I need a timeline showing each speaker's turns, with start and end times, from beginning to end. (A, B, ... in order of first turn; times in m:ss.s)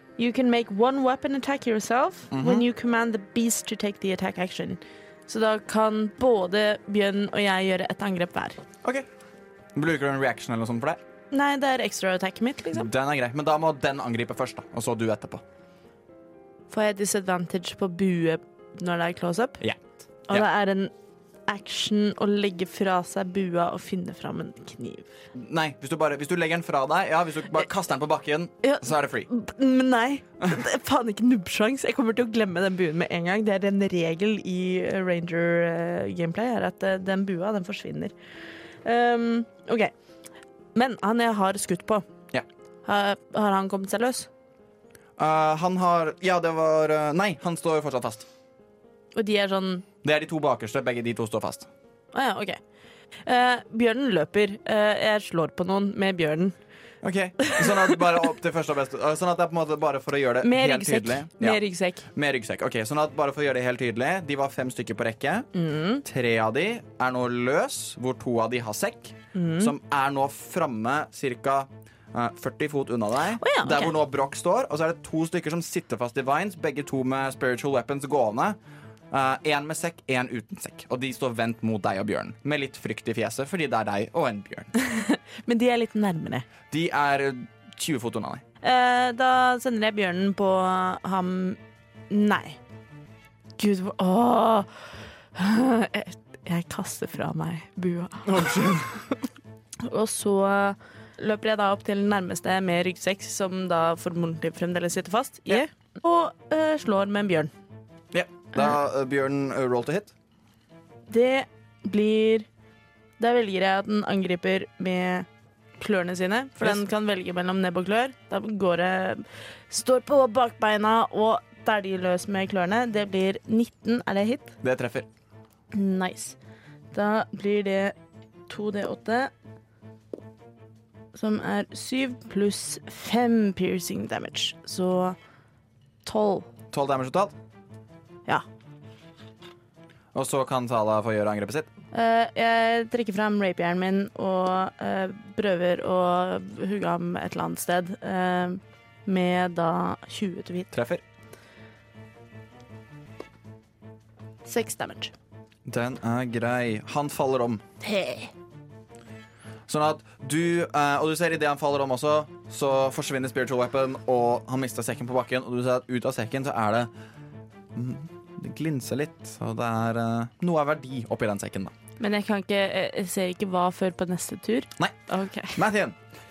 0:00.2-0:08.6 A
0:02.3-0:02.6 B
0:09.8-0:11.0 B
0:11.3-0:12.9 A
0:12.7-0:15.4 B
0:16.7-0:19.6 A
0:20.3-0:20.9 A
0:21.5-0:25.0 A
0:25.4-0:29.3 B
0:28.6-0:38.1 A
0:38.8-0:39.9 A
0:40.7-0:42.1 A
0:42.9-0:44.3 A
0:45.2-0:48.3 B
0:49.2-0:49.8 A
0:50.0-0:51.7 B
0:52.1-0:52.6 A
0:53.3-0:56.6 A
0:57.0-1:01.6 B
1:00.4-1:02.1 A
1:02.1-1:05.5 B
1:05.5-1:06.0 A
1:06.0-1:18.6 B
1:09.3-1:09.7 A
1:13.4-1:14.0 A
1:19.1-1:24.7 B
1:24.8-1:26.5 A
1:26.7-1:28.4 B
1:28.6-1:31.6 A
1:32.1-1:32.6 A
1:33.6-1:34.7 A
1:35.4-1:38.5 A
1:38.2-1:39.0 B
1:39.8-1:47.5 A
1:48.1-1:50.1 B
1:51.1-1:52.5 A
1:53.2-1:55.3 A
1:55.8-2:04.6 A
2:04.6-2:05.1 B
2:05.7-2:06.4 A
2:06.9-2:08.0 A
2:08.5-2:09.3 A
2:11.1-2:15.2 A
2:16.0-2:16.5 A
2:16.7-2:17.3 B
2:20.1-2:21.7 B
2:21.9-2:30.7 A
2:30.7-2:31.0 B
2:34.4-2:35.1 A
2:35.7-2:37.6 B
2:37.8-2:38.3 A
2:39.7-2:46.9 B
2:47.8-2:51.7 B
2:52.0-2:55.6 A
2:55.6-2:56.0 B